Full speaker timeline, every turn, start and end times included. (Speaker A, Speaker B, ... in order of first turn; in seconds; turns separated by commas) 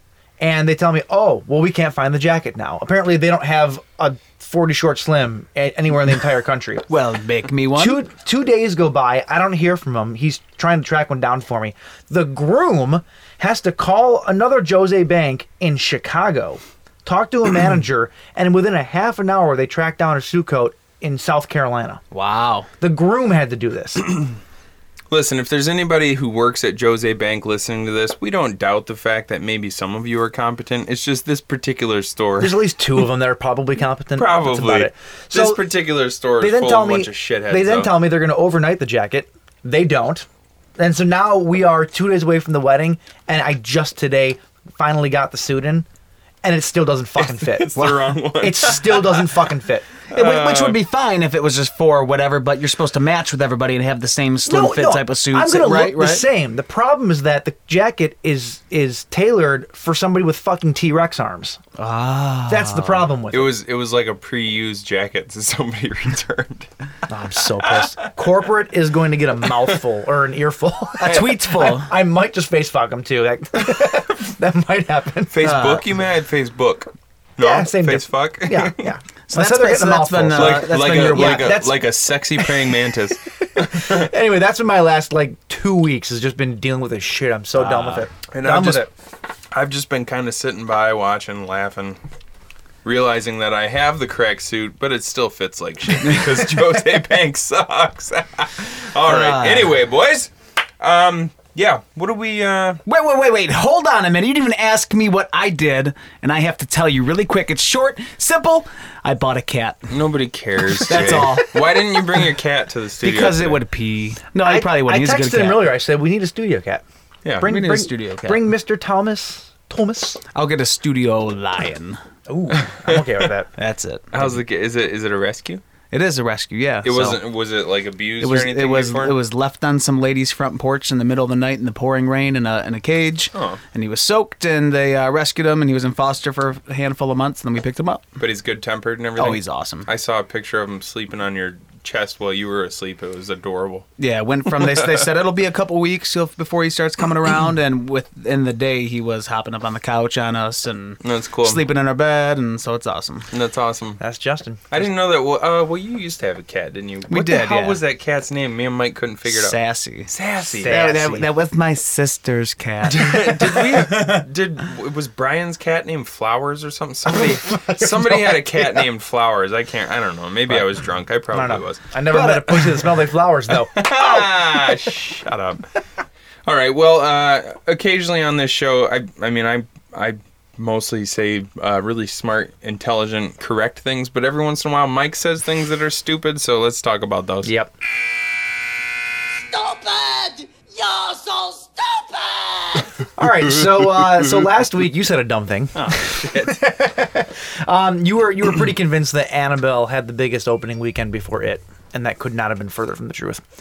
Speaker A: 0.4-6.9, Speaker B: 6.9-8.0, Speaker A: 7.7-22.0, Speaker B: 22.1-22.7, Speaker A: 22.8-24.1, Speaker C: 25.1-32.6, Speaker A: 32.4-35.6, Speaker C: 34.1-37.9, Speaker A: 36.4-45.9, Speaker A: 46.4-49.9, Speaker C: 47.2-49.3, Speaker C: 50.1-50.8, Speaker B: 50.1-56.2, Speaker A: 54.5-61.6, Speaker B: 61.8-63.0, Speaker A: 62.5-63.5, Speaker C: 63.3-66.7, Speaker A: 67.1-75.5, Speaker C: 67.7-67.9, Speaker B: 71.0-71.9, Speaker C: 71.0-71.4, Speaker C: 75.3-78.9, Speaker B: 75.4-75.8, Speaker A: 77.4-82.7, Speaker B: 79.3-81.5, Speaker C: 80.3-84.1, Speaker A: 83.3-88.9, Speaker B: 87.5-88.0, Speaker C: 88.3-88.9, Speaker C: 89.5-92.0, Speaker C: 92.8-102.8, Speaker B: 99.0-99.8, Speaker B: 102.8-109.9, Speaker C: 109.9-113.6, Speaker B: 110.8-111.8, Speaker B: 113.0-115.7, Speaker A: 114.3-116.8, Speaker C: 117.2-117.5, Speaker A: 117.4-120.2, Speaker B: 117.4-118.4, Speaker B: 120.3-122.0, Speaker A: 122.3-123.5, Speaker C: 122.5-123.3, Speaker B: 123.6-124.4, Speaker C: 124.1-125.6, Speaker B: 125.9-127.2, Speaker C: 126.8-129.2, Speaker B: 128.2-138.1, Speaker C: 133.3-133.6, Speaker C: 138.2-143.9, Speaker B: 139.2-139.9, Speaker B: 144.0-153.3, Speaker C: 144.5-145.1, Speaker C: 151.0-151.6, Speaker C: 153.3-154.0, Speaker A: 154.0-154.9, Speaker C: 154.7-160.8, Speaker B: 157.1-157.8, Speaker B: 159.3-160.1, Speaker A: 160.5-161.3, Speaker B: 160.7-164.2, Speaker C: 162.8-171.8, Speaker A: 167.1-168.9, Speaker A: 170.5-174.3, Speaker B: 172.1-172.6, Speaker C: 173.6-175.6, Speaker C: 176.4-187.5, Speaker A: 187.4-187.7, Speaker A: 189.5-203.4, Speaker C: 195.7-196.7